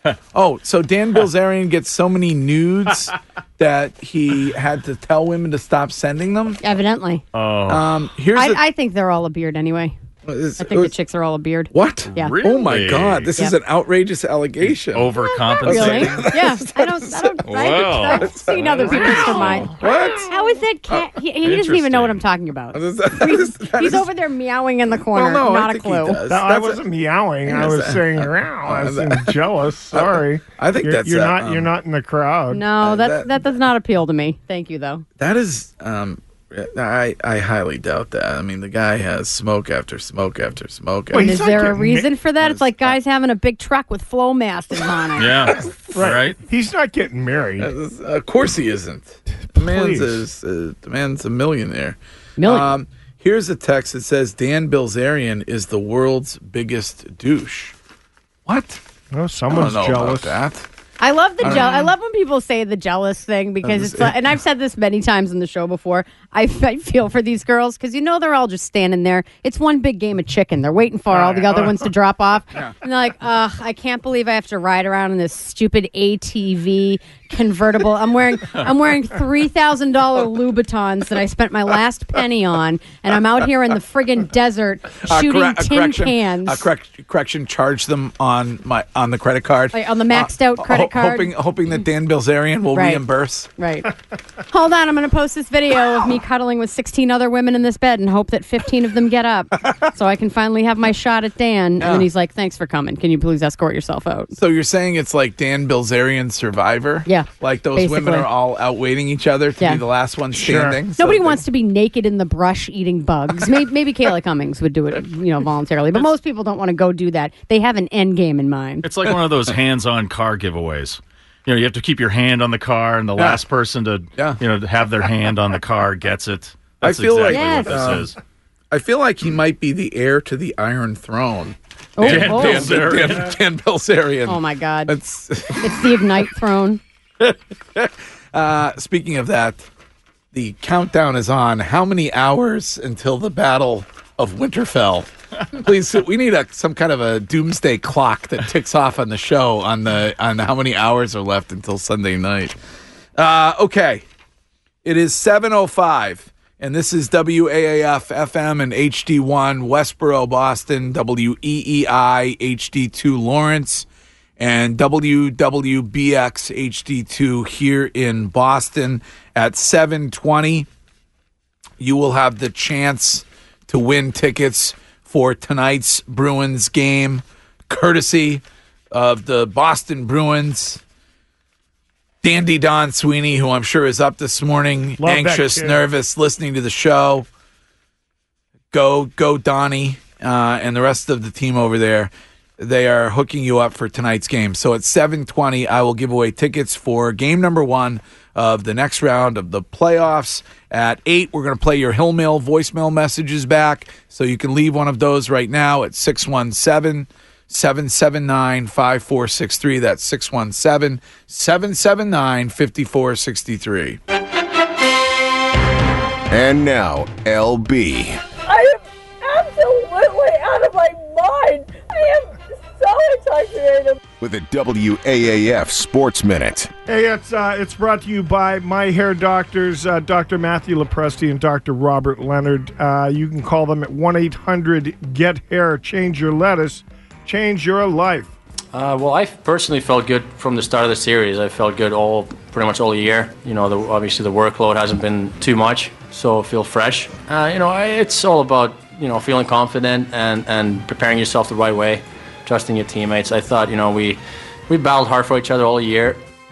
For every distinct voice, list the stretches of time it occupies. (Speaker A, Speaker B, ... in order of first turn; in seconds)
Speaker A: 0.3-6.6, 7.7-8.6, 10.2-10.9, 11.7-17.4, 18.0-20.3, 22.7-24.1, 25.1-26.8, 27.4-29.4, 29.9-31.7, 32.8-33.5, 35.2-41.3, 42.4-42.9, 47.6-57.7, 58.5-58.8, 59.5-60.6, 61.4-61.9, 63.6-64.1, 85.0-93.5, 101.8-102.1, 104.3-111.4, 126.8-128.1, 128.7-136.0, 137.2-139.7, 140.3-152.5, 153.2-154.0, 154.8-163.8, 164.4-170.7, 171.8-180.8, 182.2-187.3, 188.7-214.0
Speaker B: 6.6-7.2, 8.3-9.9, 10.6-12.4, 15.2-26.2, 32.5-35.0, 41.1-45.5, 52.4-52.7, 61.0-86.7, 89.7-91.3, 92.7-93.0, 93.6-93.9, 94.5-104.3, 107.0-108.3, 111.0-118.8, 127.3-127.9, 132.0-132.9, 134.3-134.9, 135.5-136.8
Speaker C: 7.3-7.9, 12.1-13.4, 14.6-16.4, 17.4-19.8, 21.4-22.2, 45.2-46.4, 118.8-128.2, 132.0-133.4
Speaker D: 26.3-32.6, 41.1-42.1, 45.9-47.7, 49.5-50.2, 59.1-60.4, 110.4-110.8, 185.0-185.8, 226.8-238.3
Speaker E: 216.3-218.2, 224.2-226.7
Speaker F: 218.4-224.0
Speaker G: 238.7-256.2